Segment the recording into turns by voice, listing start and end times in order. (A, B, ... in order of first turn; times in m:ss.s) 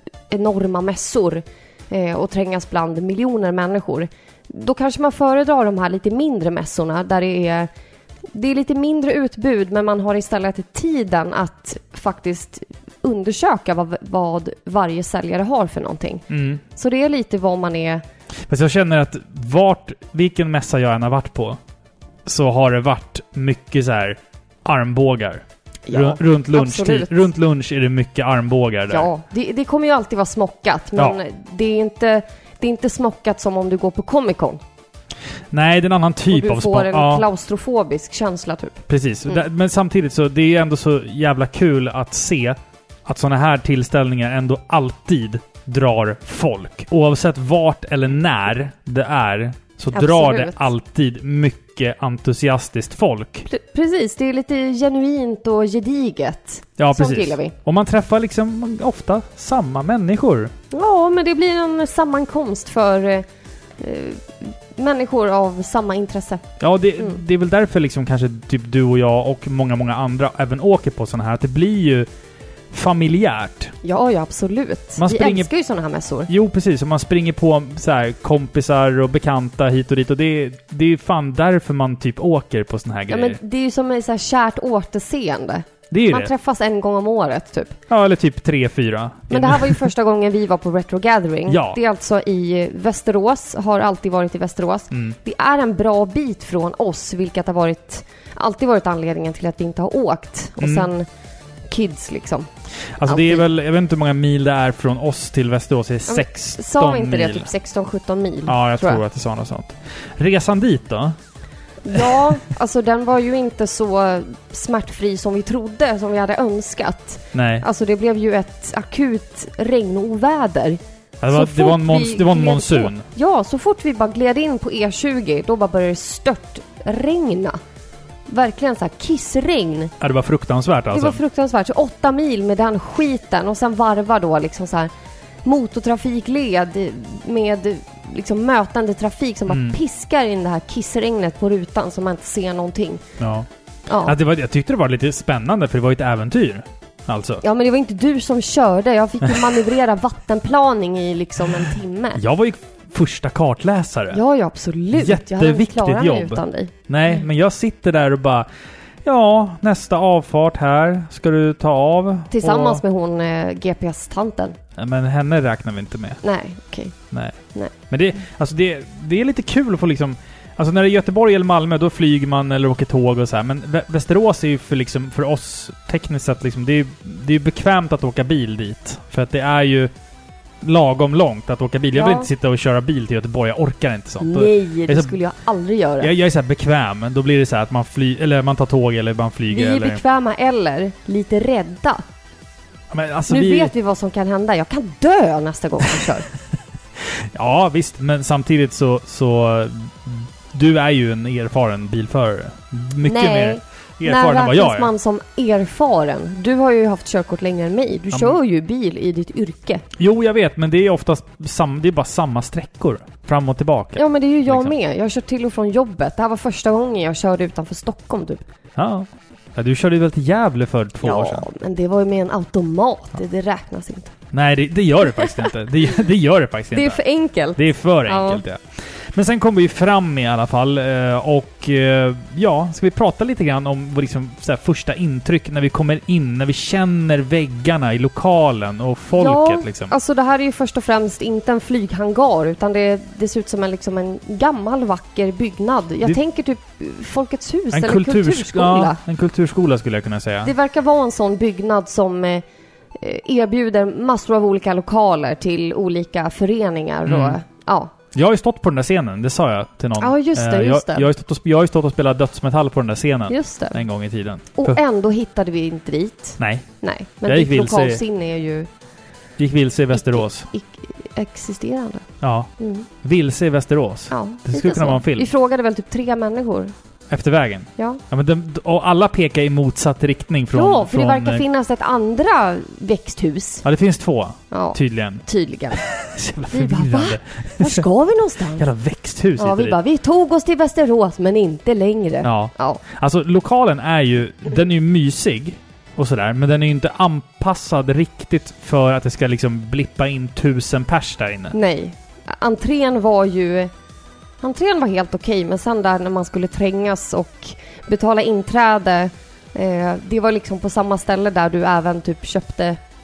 0:00.3-0:07.7 A
0:08.3-0:18.0 A
0:16.3-0:16.6 B
0:18.5-0:21.6 B
0:22.3-0:29.1 B
0:25.9-0:27.3 A
0:28.9-0:34.6 A
0:35.5-0:37.2 B
0:36.3-0:39.4 A
0:38.9-0:53.5 B
0:49.9-0:50.6 A
0:53.5-0:57.5 A
0:56.8-1:00.5 B
1:00.7-1:03.3 A
1:03.8-1:06.4 A
1:06.6-1:12.1 B
1:12.7-1:13.7 B
1:13.8-1:16.3 A
1:15.0-1:15.5 B
1:16.3-1:23.4 B
1:23.1-1:27.8 A
1:25.9-1:26.3 B
1:27.9-1:29.9 B
1:29.3-1:41.1 A
1:31.5-1:31.8 B
1:34.9-1:35.2 B
1:40.6-1:40.9 B
1:41.7-1:42.5 A
1:43.0-1:47.5 B
1:43.0-1:43.4 A
1:46.1-1:49.0 A
1:48.5-1:51.2 B
1:51.8-2:07.6 A
1:57.3-1:57.6 B
2:01.2-2:03.0 B
2:08.3-2:09.9 A
2:10.0-2:11.2 B
2:10.9-2:14.9 A
2:15.4-2:23.0 A
2:19.5-2:19.8 B
2:23.2-2:23.5 B
2:23.9-2:24.2 A
2:24.0-2:27.4 B
2:27.4-2:32.2 A
2:32.2-2:34.2 B
2:34.1-2:36.7 A
2:34.9-2:38.5 B
2:39.0-2:42.8 B
2:42.3-2:44.6 A
2:44.8-2:46.2 B
2:46.2-2:46.9 A
2:47.1-2:47.4 B
2:47.9-2:59.9 B
3:00.6-3:05.2 B
3:01.9-3:02.3 A
3:04.2-3:06.1 A
3:06.0-3:10.0 B
3:09.5-3:12.0 A
3:12.9-3:13.7 B
3:13.3-3:16.3 A
3:17.0-3:24.9 B
3:23.0-3:29.8 A
3:28.1-3:28.4 B
3:30.0-3:34.7 B
3:34.0-3:38.4 A
3:38.8-3:41.4 B
3:41.0-3:44.1 A
3:44.3-3:47.0 B
3:46.7-3:48.4 A
3:47.6-3:59.9 B
3:59.1-4:09.0 A
4:07.7-4:10.5 B
4:10.4-4:12.4 A
4:13.0-4:17.9 A
4:17.1-4:17.4 B
4:18.1-4:24.8 B
4:20.0-4:21.1 A
4:23.3-4:23.8 A
4:24.6-4:28.7 A
4:26.4-4:26.7 B
4:27.2-4:28.0 B
4:29.4-4:30.5 B
4:29.9-4:32.1 A
4:32.2-4:32.5 B
4:32.6-4:32.9 A
4:33.0-4:35.3 B
4:34.1-4:36.7 A
4:37.1-4:41.4 B
4:40.5-4:43.6 A
4:43.6-4:45.2 B
4:44.5-4:45.8 A
4:45.7-4:47.8 B
4:46.5-4:48.7 A
4:48.6-4:49.8 B
4:49.4-4:52.8 A
4:52.2-5:01.6 B
5:01.5-5:03.7 A
5:04.4-5:12.8 A